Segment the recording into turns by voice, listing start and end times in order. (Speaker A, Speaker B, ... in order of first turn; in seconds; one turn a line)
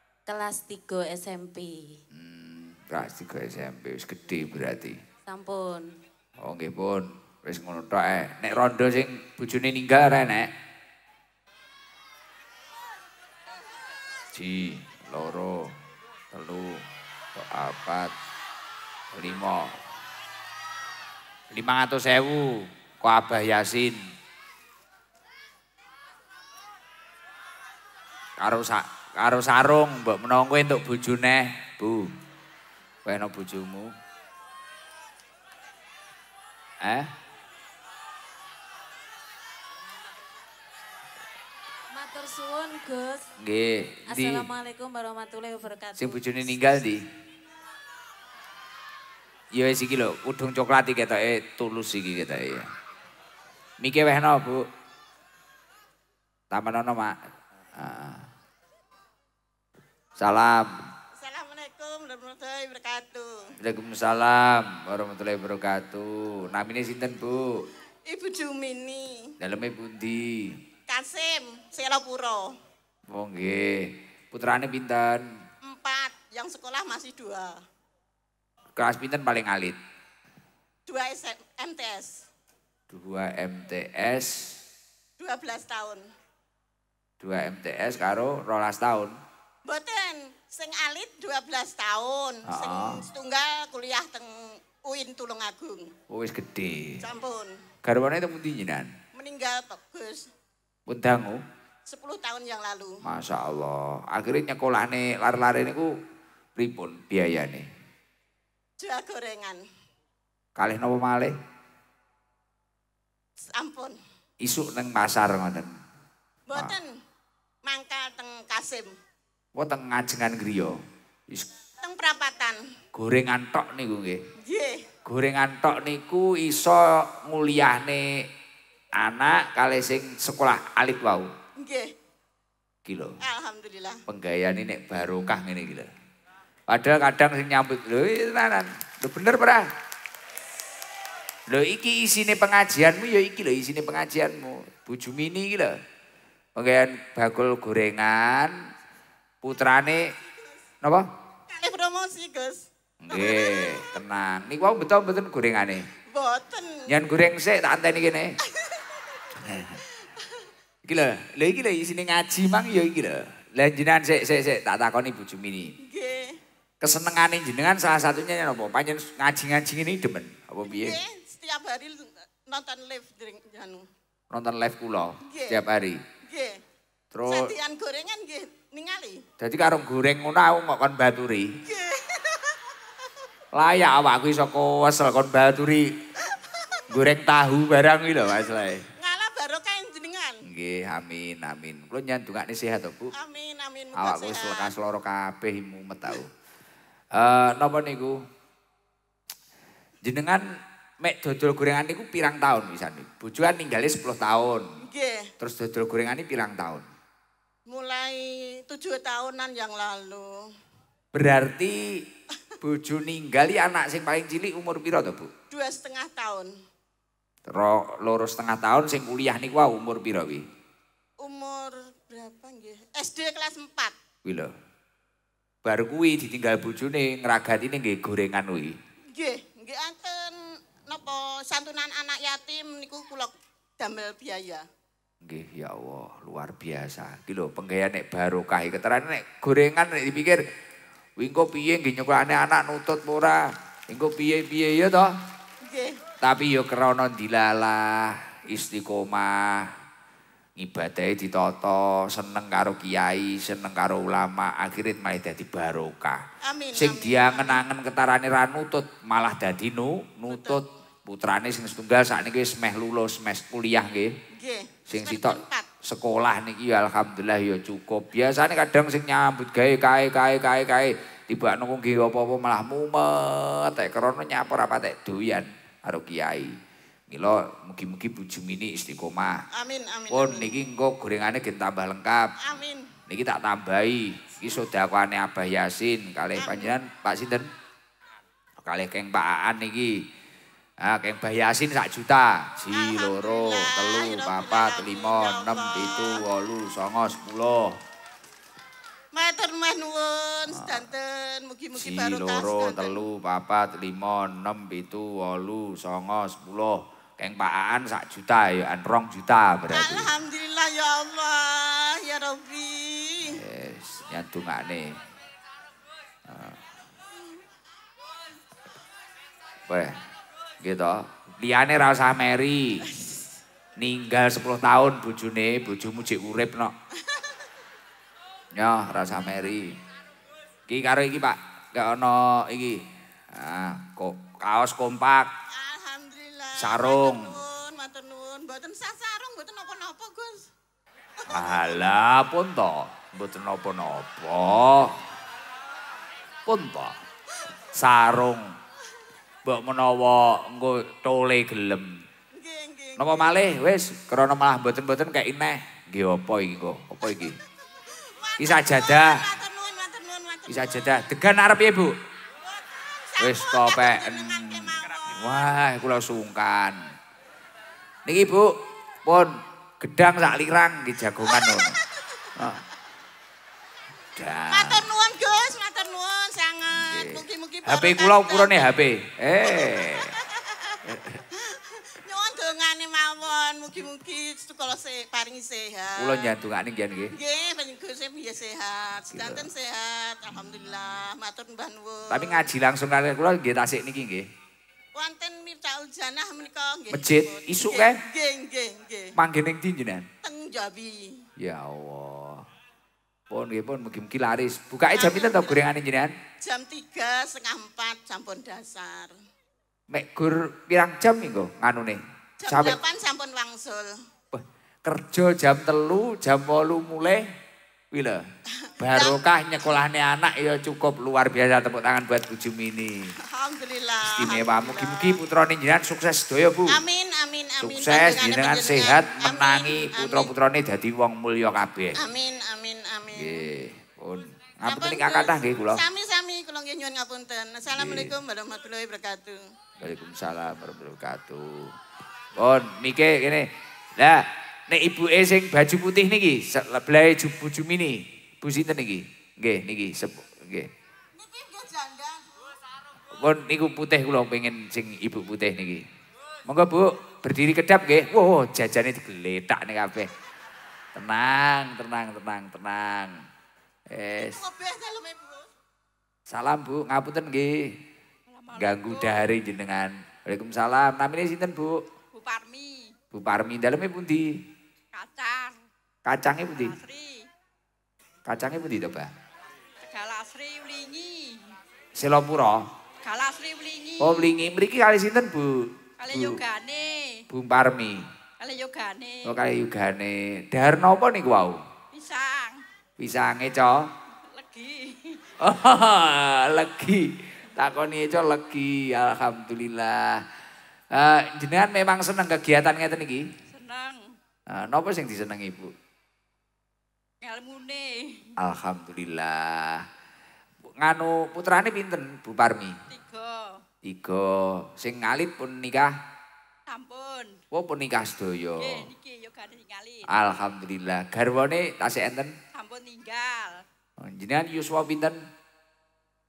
Speaker A: 0.3-2.0
Speaker B: 2.1-5.0
Speaker A: 5.2-6.0
Speaker B: 6.4-10.5
Speaker B: 14.3-15.7
Speaker B: 16.3-16.8
Speaker B: 17.3-18.1
Speaker B: 19.1-19.7
Speaker B: 21.5-24.0
Speaker B: 28.4-32.1
Speaker B: 33.0-33.9
Speaker B: 36.8-37.1
Speaker A: 41.9-43.3
Speaker B: 43.4-44.5
Speaker A: 44.1-46.9
Speaker B: 46.0-47.0
Speaker B: 49.5-52.7
Speaker B: 53.8-54.7
Speaker B: 56.5-57.1
Speaker B: 57.8-58.3
Speaker B: 60.2-60.8
Speaker C: 61.2-63.5
Speaker B: 63.6-67.7
Speaker C: 68.0-69.3
Speaker B: 69.4-70.5
Speaker C: 70.9-72.5
Speaker B: 73.1-75.2
Speaker C: 75.6-77.6
Speaker B: 78.8-79.8
Speaker C: 80.9-82.2
Speaker B: 82.9-84.5
Speaker C: 85.2-86.1
Speaker B: 87.2-89.2
Speaker C: 89.7-94.3
Speaker B: 92.5-93.0
Speaker C: 94.8-95.9
Speaker B: 96.1-97.0
Speaker C: 97.0-97.6
Speaker B: 97.8-98.9
Speaker C: 99.1-100.3
Speaker B: 100.9-101.4
Speaker C: 101.9-103.0
Speaker B: 103.0-105.9
Speaker B: 106.5-107.7
Speaker C: 108.8-109.6
Speaker B: 110.6-111.3
Speaker C: 113.5-114.0
Speaker B: 114.4-115.7
Speaker C: 116.5-116.9
Speaker C: 117.6-118.9
Speaker B: 119.6-120.8
Speaker C: 121.8-122.6
Speaker B: 122.9-124.2
Speaker C: 124.4-124.9
Speaker B: 125.0-128.1
Speaker B: 129.0-131.3
Speaker C: 131.6-131.9
Speaker B: 132.8-133.2
Speaker C: 133.2-134.0
Speaker B: 134.1-135.9
Speaker B: 136.7-139.7
Speaker B: 141.5-145.7
Speaker B: 146.6-148.6
Speaker B: 149.4-150.1
Speaker B: 150.8-151.1
Speaker C: 151.5-153.8
Speaker B: 153.0-155.8
Speaker C: 156.1-156.8
Speaker B: 156.9-158.3
Speaker C: 158.5-158.8
Speaker B: 159.4-159.8
Speaker B: 160.8-165.7
Speaker C: 165.8-166.4
Speaker B: 166.8-171.0
Speaker C: 170.7-173.9
Speaker B: 174.3-176.0
Speaker C: 175.3-175.6
Speaker C: 176.2-176.6
Speaker B: 177.1-177.5
Speaker C: 177.3-179.2
Speaker B: 179.4-181.5
Speaker C: 181.7-182.6
Speaker B: 183.5-185.9
Speaker C: 186.3-186.8
Speaker B: 186.9-188.9
Speaker C: 189.0-190.4
Speaker B: 190.4-193.1
Speaker C: 193.1-194.8
Speaker B: 193.9-196.3
Speaker B: 197.1-198.2
Speaker B: 200.0-200.5
Speaker B: 201.0-204.7
Speaker C: 204.8-205.3
Speaker B: 205.4-206.8
Speaker C: 207.7-210.4
Speaker B: 211.1-211.8
Speaker B: 212.6-215.3
Speaker C: 215.5-216.5
Speaker B: 217.5-220.4
Speaker C: 221.2-223.9
Speaker B: 224.2-224.5
Speaker B: 225.6-228.8
Speaker C: 229.1-234.6
Speaker B: 235.2-240.4
Speaker B: 241.2-245.1
Speaker C: 245.6-246.0
Speaker B: 246.2-249.7
Speaker B: 250.6-256.2
Speaker C: 256.4-257.6
Speaker B: 256.7-264.1
Speaker C: 260.3-260.6
Speaker C: 264.3-265.7
Speaker B: 264.9-276.6
Speaker B: 277.1-279.4
Speaker C: 279.5-280.5
Speaker B: 280.1-282.3
Speaker C: 282.4-282.9
Speaker B: 283.1-287.5
Speaker C: 286.4-286.8
Speaker B: 288.6-289.9
Speaker B: 290.8-297.7
Speaker C: 292.7-296.2
Speaker C: 299.1-303.0
Speaker B: 300.5-300.8
Speaker B: 301.8-310.1
Speaker C: 309.7-313.4
Speaker B: 313.3-315.0
Speaker B: 316.3-316.6
Speaker B: 319.7-320.0
Speaker B: 320.6-322.9
Speaker B: 323.8-326.7
Speaker C: 327.0-327.3
Speaker B: 328.6-329.7
Speaker B: 330.7-335.3
Speaker C: 335.5-340.5
Speaker B: 336.6-337.3
Speaker C: 341.2-341.6
Speaker B: 341.3-345.0
Speaker B: 346.4-346.9
Speaker B: 347.7-348.5
Speaker B: 349.4-351.9
Speaker C: 352.4-353.2
Speaker B: 353.0-357.4
Speaker C: 357.9-360.9
Speaker B: 358.4-359.2
Speaker B: 360.5-361.9
Speaker C: 363.1-365.3
Speaker B: 363.2-366.8
Speaker B: 368.1-368.5
Speaker B: 369.0-371.7
Speaker C: 371.2-372.2
Speaker B: 372.4-372.6
Speaker B: 374.1-374.8
Speaker C: 374.5-378.7
Speaker B: 376.7-380.1
Speaker C: 379.4-386.3
Speaker B: 380.9-381.1
Speaker B: 386.0-387.1
Speaker C: 387.1-392.5
Speaker B: 389.1-389.5
Speaker B: 392.1-394.2
Speaker C: 394.9-399.1
Speaker B: 396.9-398.0
Speaker B: 399.1-400.1
Speaker C: 400.2-401.2
Speaker B: 401.4-402.4
Speaker B: 403.3-406.1
Speaker C: 404.9-405.6
Speaker C: 406.4-409.1
Speaker B: 409.9-412.8
Speaker C: 412.4-413.9
Speaker B: 414.3-417.2
Speaker B: 417.9-418.2
Speaker C: 418.6-419.2
Speaker B: 418.8-423.1
Speaker C: 423.3-425.2
Speaker B: 424.0-426.8
Speaker C: 426.7-430.3
Speaker B: 427.6-432.0
Speaker C: 432.0-433.4
Speaker B: 433.1-435.8
Speaker C: 434.6-439.5
Speaker B: 437.7-438.1
Speaker B: 439.8-441.7
Speaker B: 442.4-450.7
Speaker C: 451.1-452.5
Speaker B: 453.1-455.8
Speaker B: 456.4-460.1
Speaker B: 460.9-463.1
Speaker B: 463.9-464.4
Speaker C: 464.2-465.5
Speaker B: 466.3-467.5
Speaker D: 468.3-469.3
Speaker B: 468.6-471.8
Speaker D: 472.1-472.9
Speaker B: 473.1-474.3
Speaker D: 474.9-475.6
Speaker B: 476.1-476.7
Speaker D: 476.5-477.3
Speaker B: 478.3-479.1
Speaker D: 479.9-481.5
Speaker B: 481.9-482.7
Speaker D: 483.0-484.3
Speaker B: 484.0-486.4
Speaker D: 486.0-487.2
Speaker B: 487.3-488.0
Speaker D: 488.4-489.4
Speaker B: 489.2-491.6
Speaker D: 491.9-492.6
Speaker B: 493.0-493.9
Speaker D: 494.3-495.3
Speaker B: 495.4-500.2
Speaker B: 500.9-503.3
Speaker D: 503.5-504.1
Speaker B: 504.5-505.7
Speaker D: 507.2-508.3
Speaker B: 508.4-509.8
Speaker B: 510.8-512.8
Speaker D: 512.9-513.6
Speaker B: 513.8-515.9
Speaker D: 516.7-517.4
Speaker B: 517.5-518.9
Speaker D: 518.6-520.1
Speaker B: 520.1-522.4
Speaker D: 522.5-523.6
Speaker B: 524.0-525.2